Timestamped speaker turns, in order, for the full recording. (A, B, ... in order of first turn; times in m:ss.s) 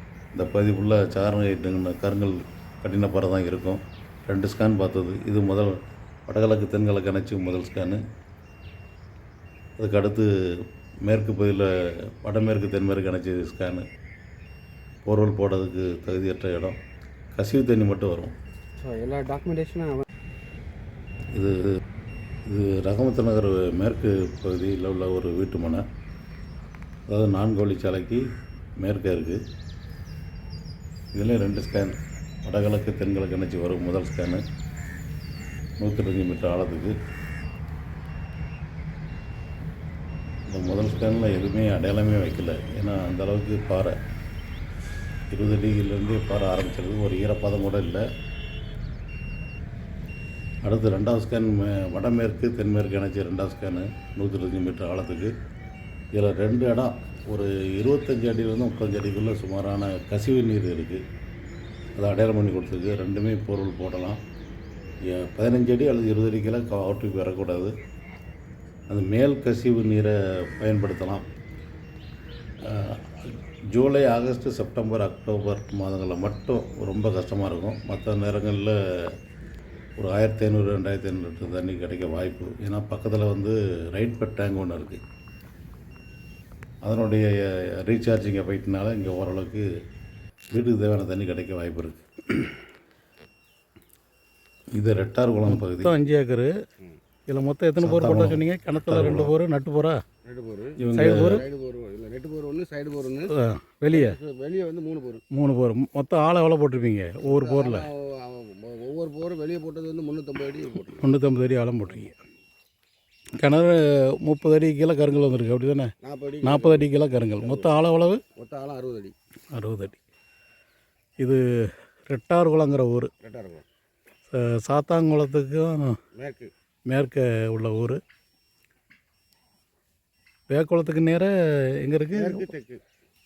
0:00.3-0:08.0 A
0:09.8-0:13.9 A
0:15.0-0:16.8 A
0:17.3-0:18.3 A
0:18.8-0:20.0 B
0:21.3-0:21.8 A
0:22.4-0:25.8 A
0:27.1-0:28.2 A
0:28.8-0:29.4 A
0:31.1-0:34.4 A
0:35.8-0:37.0 A
0:40.5-0:44.0 A
0:45.3-0:48.0 A
0:50.6-0:55.3 A
0:56.2-1:01.0 A
1:02.0-1:04.2 A
1:05.1-1:07.7 A
1:08.9-1:11.2 A
1:12.6-1:19.1 A
1:20.0-1:25.0 A
1:26.8-1:29.7 A
1:30.5-1:32.0 A
1:34.7-1:35.9 A
1:35.4-1:36.5 C
1:37.3-1:40.0 C
1:37.8-1:39.3 A
1:40.2-1:43.3 B
1:40.8-1:41.4 A
1:40.9-1:41.4 C
1:43.3-1:44.2 C
1:43.9-1:45.2 B
1:45.3-1:47.9 C
1:47.2-1:51.0 B
1:50.9-1:52.2 C
1:53.4-1:55.9 C
1:56.0-1:56.9 B
1:56.4-1:58.2 C
1:57.4-1:57.7 B
1:58.3-1:59.1 B
1:59.5-2:00.0 C
2:02.1-2:03.1 C
2:03.2-2:03.6 B
2:04.3-2:06.0 C
2:06.1-2:06.5 B
2:06.9-2:08.0 C
2:10.5-2:11.3 C
2:11.8-2:12.5 C
2:12.1-2:12.8 B